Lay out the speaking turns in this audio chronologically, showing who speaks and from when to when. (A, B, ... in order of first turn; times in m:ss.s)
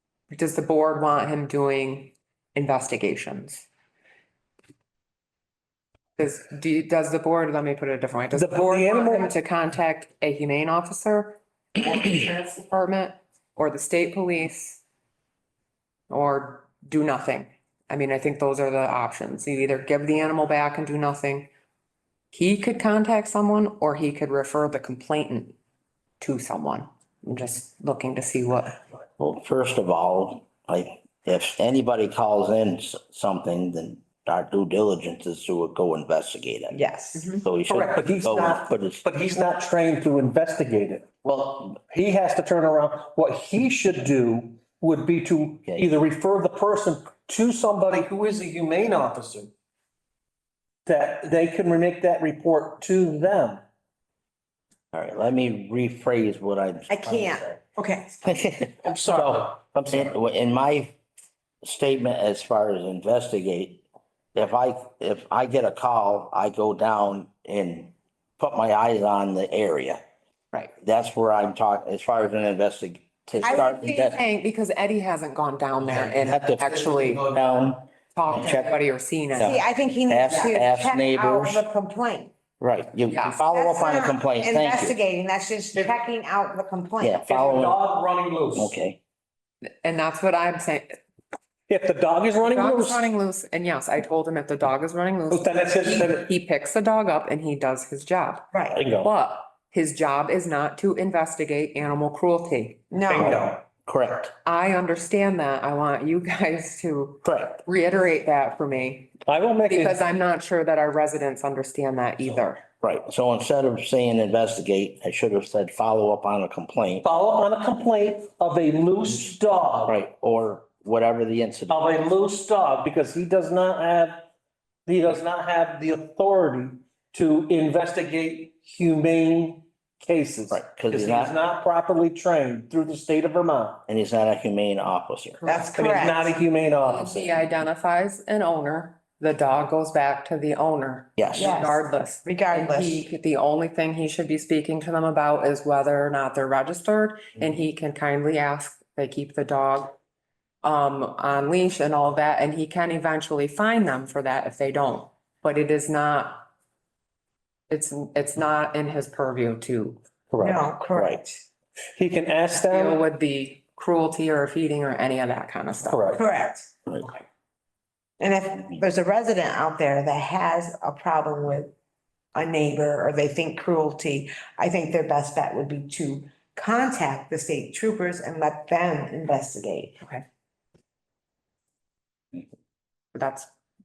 0:00.3-0:03.7 A
0:06.2-0:14.8 A
0:08.3-0:09.3 B
0:16.1-0:21.5 A
0:22.3-0:25.6 A
0:26.2-0:28.8 A
0:29.2-0:36.8 C
0:36.7-0:37.3 D
0:37.4-0:39.0 C
0:37.7-0:41.1 B
0:41.2-0:41.7 C
0:41.7-0:49.5 B
0:50.9-0:53.6 B
0:54.9-0:57.6 C
0:56.9-0:58.3 D
0:58.2-1:01.0 C
0:58.8-1:00.1 B
1:01.6-1:10.0 C
1:10.8-1:14.2 C
1:13.4-1:14.2 D
1:14.1-1:17.3 A
1:15.9-1:18.8 C
1:18.1-1:19.6 A
1:19.3-1:21.7 C
1:19.4-1:22.3 D
1:22.6-1:25.0 C
1:23.1-1:23.4 A
1:23.4-1:27.2 D
1:27.0-1:27.8 C
1:27.2-1:28.7 B
1:28.5-1:29.0 C
1:29.6-1:31.0 A
1:31.7-1:33.1 B
1:32.4-1:42.9 A
1:35.3-1:36.3 B
1:38.5-1:38.8 D
1:38.8-1:39.1 B
1:42.9-1:43.4 D
1:43.1-1:43.6 B
1:43.2-1:44.3 C
1:44.4-1:52.6 A
1:47.2-1:47.6 C
1:49.3-1:50.0 B
1:52.8-1:57.1 C
1:57.0-2:00.0 B
1:59.9-2:01.8 C
2:01.7-2:04.3 B
2:04.9-2:13.8 B
2:10.5-2:11.4 C
2:13.9-2:15.4 C
2:15.4-2:15.9 A
2:15.5-2:16.4 D
2:15.7-2:17.3 B
2:16.9-2:30.0 A
2:21.2-2:21.6 C
2:21.4-2:23.1 D
2:30.6-2:36.5 A
2:37.7-2:40.0 A
2:40.3-2:40.6 B
2:40.4-2:41.4 D
2:40.9-2:41.2 C
2:42.0-2:43.0 B
2:42.6-2:46.2 A
2:45.8-2:46.2 B
2:46.1-2:46.7 D
2:48.2-2:51.7 D
2:52.4-3:00.0 D
3:03.1-3:03.5 A